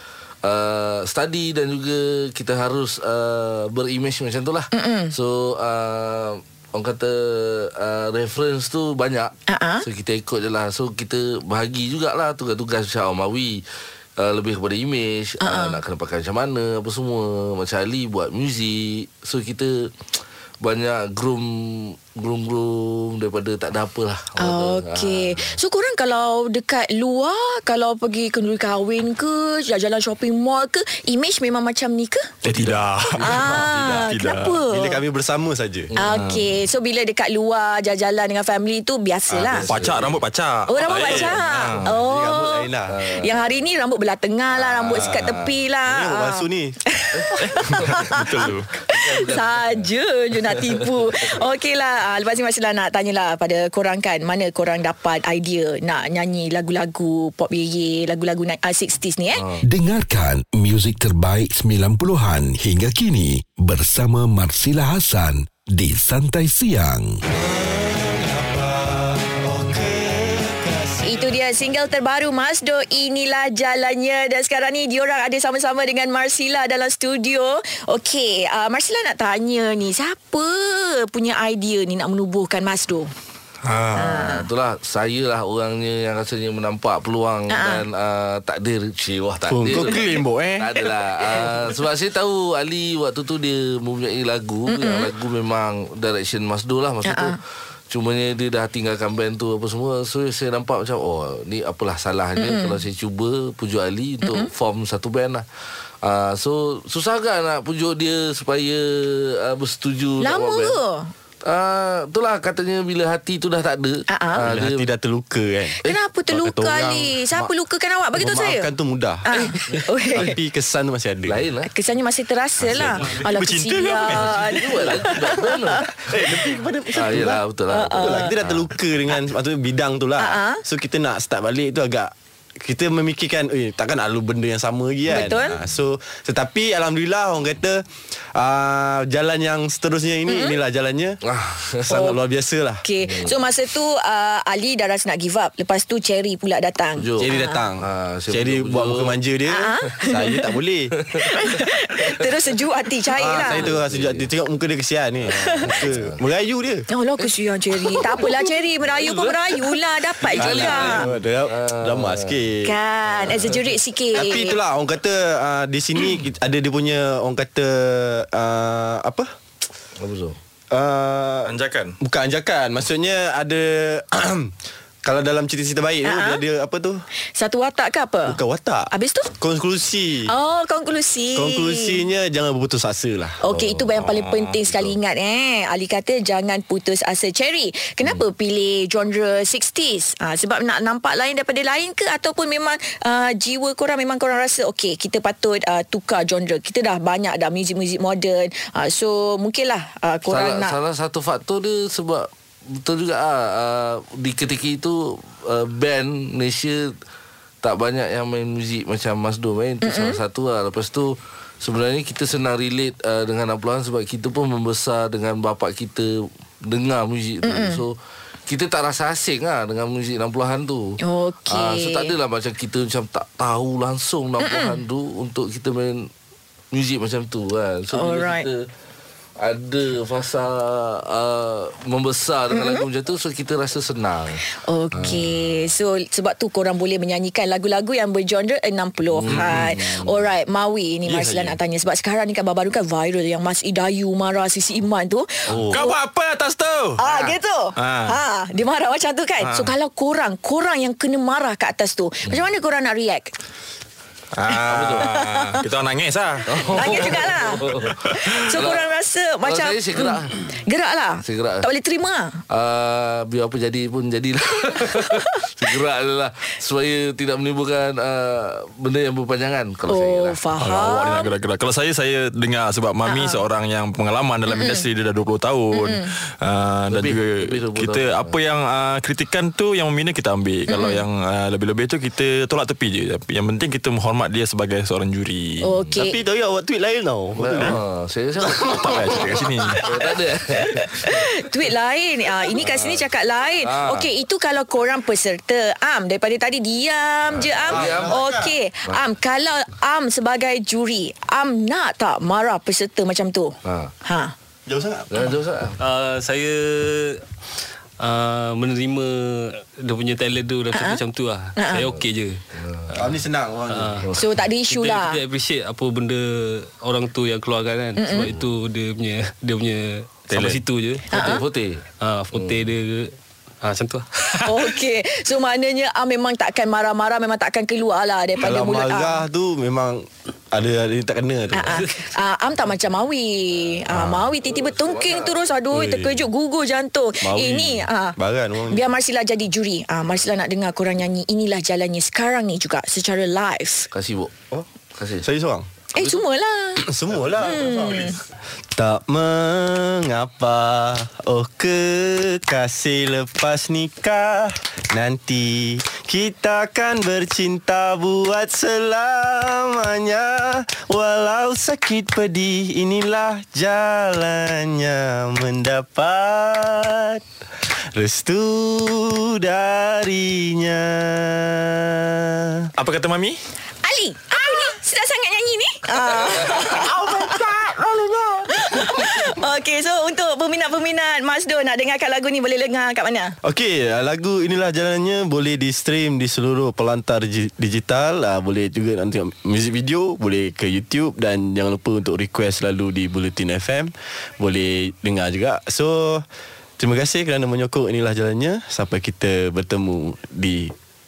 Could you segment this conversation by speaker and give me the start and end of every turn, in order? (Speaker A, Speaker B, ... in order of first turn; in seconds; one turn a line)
Speaker A: 0.4-13.6
Speaker B: 4.7-5.1
Speaker B: 9.5-9.8
Speaker A: 14.2-19.9
Speaker B: 15.4-15.8
Speaker A: 20.6-25.6
Speaker B: 24.4-32.3
Speaker C: 32.4-34.1
Speaker D: 32.4-34.6
Speaker B: 33.2-35.0
Speaker A: 33.3-34.1
Speaker C: 34.7-35.9
Speaker A: 35.9-36.2
Speaker B: 36.0-39.7
Speaker D: 36.1-36.4
Speaker C: 39.3-40.1
Speaker A: 39.5-39.9
Speaker D: 39.6-41.9
Speaker B: 40.7-59.4
Speaker A: 41.0-41.3
Speaker C: 41.8-43.0
Speaker A: 42.9-43.6
Speaker A: 44.5-45.6
Speaker C: 44.9-46.8
Speaker A: 47.1-47.5
Speaker D: 47.5-48.8
Speaker A: 48.9-49.9
Speaker A: 59.3-59.6
Speaker E: 59.6-67.2
Speaker C: 67.4-71.2
Speaker B: 71.0-83.1
Speaker D: 83.6-84.1
Speaker B: 83.9-84.5
Speaker A: 84.0-97.4
Speaker B: 87.5-87.8
Speaker C: 89.5-90.7
Speaker B: 89.7-90.2
Speaker B: 94.7-95.1
Speaker B: 97.0-97.4
Speaker A: 97.9-105.4
Speaker B: 102.4-102.8
Speaker B: 104.2-104.5
Speaker A: 106.0-110.8
Speaker B: 110.2-111.1
Speaker A: 111.5-114.9
Speaker B: 114.1-114.5
Speaker C: 114.5-115.8
Speaker B: 115.8-118.7
Speaker C: 116.3-117.5
Speaker C: 118.2-119.3
Speaker B: 119.2-120.4
Speaker A: 119.3-119.9
Speaker C: 120.1-121.4
Speaker A: 121.3-121.7
Speaker B: 121.7-125.8
Speaker D: 123.2-124.8
Speaker A: 124.1-126.1
Speaker C: 126.1-127.4
Speaker A: 126.9-128.7
Speaker B: 127.7-128.3
Speaker C: 128.0-137.8
Speaker B: 130.2-130.6
Speaker B: 135.1-135.6
Speaker C: 138.3-141.2
Speaker B: 140.2-140.6
Speaker A: 141.2-142.0
Speaker C: 141.8-142.8
Speaker B: 141.9-142.2
Speaker B: 142.8-147.7
Speaker A: 143.0-143.4
Speaker A: 147.0-149.2
Speaker C: 147.2-150.9
Speaker B: 149.5-150.5
Speaker A: 151.0-152.1
Speaker B: 151.2-153.7
Speaker A: 153.1-154.3
Speaker C: 153.2-156.9
Speaker A: 155.3-156.2
Speaker B: 155.3-155.8
Speaker B: 156.9-161.1
Speaker A: 157.2-162.5
Speaker C: 160.2-162.8
Speaker B: 162.6-164.6
Speaker A: 163.1-163.8
Speaker C: 164.1-169.3
Speaker A: 170.0-170.4
Speaker C: 170.7-177.0
Speaker D: 171.4-171.9
Speaker B: 176.0-176.4
Speaker B: 177.3-178.4
Speaker C: 178.2-180.3
Speaker B: 178.9-179.3
Speaker B: 180.2-182.0
Speaker C: 181.3-183.4
Speaker B: 183.4-200.8
Speaker A: 183.5-183.9
Speaker D: 184.0-184.6
Speaker A: 200.3-206.9
Speaker A: 207.6-217.9
Speaker B: 209.8-210.2
Speaker B: 217.4-217.8
Speaker A: 218.5-226.1
Speaker B: 221.0-222.1
Speaker B: 224.4-224.8
Speaker A: 226.7-228.7
Speaker B: 227.9-228.5
Speaker A: 229.4-235.6
Speaker B: 232.5-232.8
Speaker B: 234.5-246.0
Speaker A: 239.1-240.2
Speaker A: 241.1-241.6
Speaker C: 245.5-245.8
Speaker D: 245.7-248.2
Speaker B: 247.0-253.3
Speaker D: 249.4-249.7
Speaker D: 254.3-257.1
Speaker A: 254.6-255.1
Speaker B: 255.0-255.6
Speaker A: 256.5-258.9
Speaker B: 256.7-262.4
Speaker A: 259.4-260.4
Speaker A: 261.2-261.6
Speaker A: 262.5-270.4
Speaker B: 265.0-265.4
Speaker B: 269.9-271.3
Speaker D: 270.6-285.7
Speaker B: 273.0-273.4
Speaker B: 274.5-274.9
Speaker B: 275.7-276.1
Speaker A: 276.9-278.4
Speaker B: 280.7-281.0
Speaker B: 285.6-286.2
Speaker C: 286.0-287.8
Speaker A: 287.4-291.2
Speaker D: 288.6-289.8
Speaker B: 290.5-304.3
Speaker A: 292.5-293.1
Speaker A: 293.6-294.1
Speaker A: 297.3-298.2
Speaker C: 297.7-298.5
Speaker A: 303.6-303.9
Speaker C: 304.7-305.3
Speaker A: 305.1-305.8
Speaker F: 305.8-307.2
Speaker F: 308.0-312.4
Speaker B: 310.7-311.0
Speaker B: 311.6-311.9
Speaker A: 311.9-312.9
Speaker C: 312.9-314.0
Speaker F: 313.7-314.1
Speaker A: 314.0-314.3
Speaker B: 314.2-315.2
Speaker F: 314.6-321.4
Speaker B: 318.0-318.3
Speaker C: 320.3-320.6
Speaker B: 321.1-321.4
Speaker A: 321.1-322.7
Speaker F: 322.0-324.6
Speaker B: 324.4-329.3
Speaker C: 328.4-331.8
Speaker B: 331.5-338.1
Speaker C: 333.9-334.3
Speaker A: 334.4-335.4
Speaker C: 335.7-336.3
Speaker C: 337.2-338.9
Speaker B: 338.7-343.9
Speaker A: 343.9-344.3
Speaker A: 344.9-345.3
Speaker C: 345.2-345.7
Speaker B: 345.9-346.8
Speaker C: 346.8-348.2
Speaker B: 347.4-348.2
Speaker C: 348.7-367.2
Speaker C: 367.9-372.7
Speaker D: 372.8-373.4
Speaker B: 373.8-377.4
Speaker C: 376.1-379.0
Speaker B: 378.5-383.4
Speaker C: 383.4-396.2
Speaker C: 396.8-400.7